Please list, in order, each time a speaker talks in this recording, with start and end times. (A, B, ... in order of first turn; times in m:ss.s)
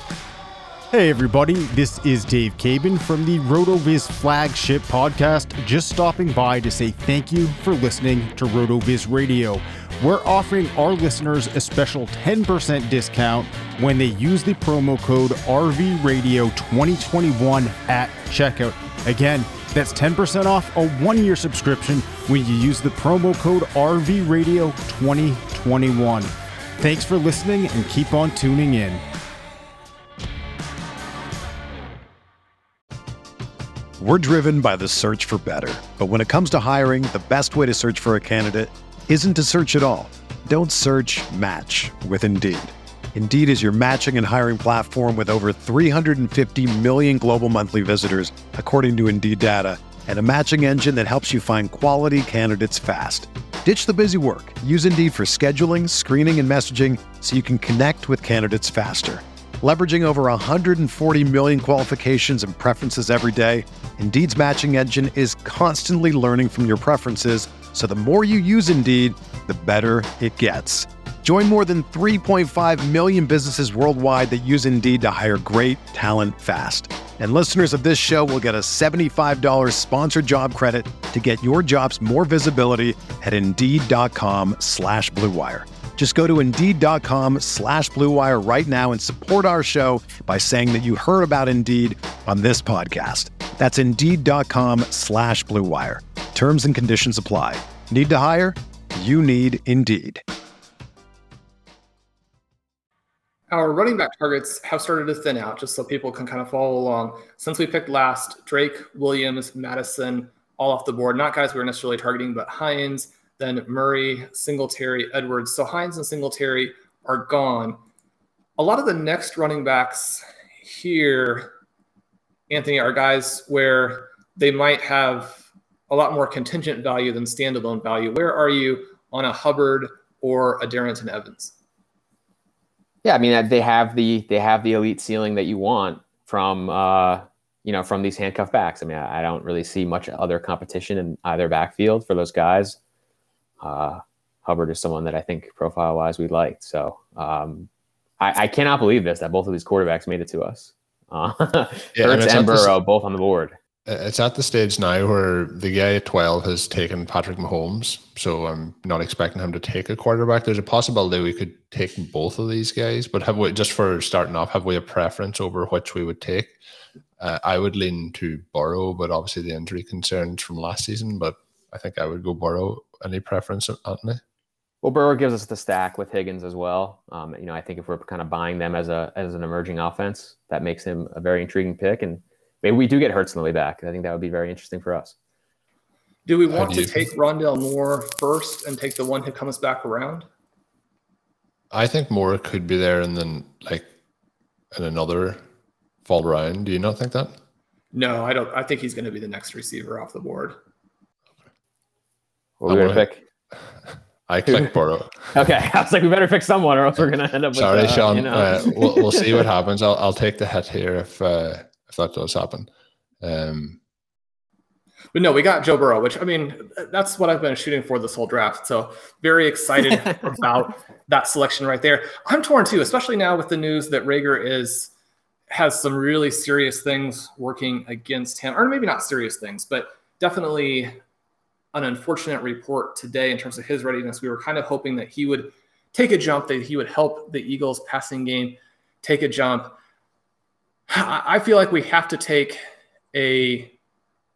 0:00.9-0:29.0 A
0:34.0-1:40.2 B
1:43.5-1:57.8 C
1:58.6-2:01.5 C
2:02.5-2:11.5 C
2:13.0-2:22.8 D
2:23.6-2:27.7 D
2:28.2-2:33.6 D
2:31.9-2:32.7 E
2:33.8-2:46.6 E
2:47.2-2:54.2 E
2:54.8-3:05.1 D
3:06.2-3:10.2 C
3:06.5-3:07.0 E
3:11.7-3:13.9 E
3:14.7-3:15.4 E
3:16.0-3:17.3 E
3:17.9-3:20.6 C
3:22.6-3:23.2 D
3:22.6-3:23.1 E
3:24.3-3:25.3 E
3:25.3-3:29.4 D
3:27.5-3:32.7 E
3:33.2-3:33.8 E
3:35.1-3:44.9 C
3:45.5-3:51.0 C
3:51.7-3:59.7 C
4:00.9-4:02.6 C
4:03.1-4:03.7 C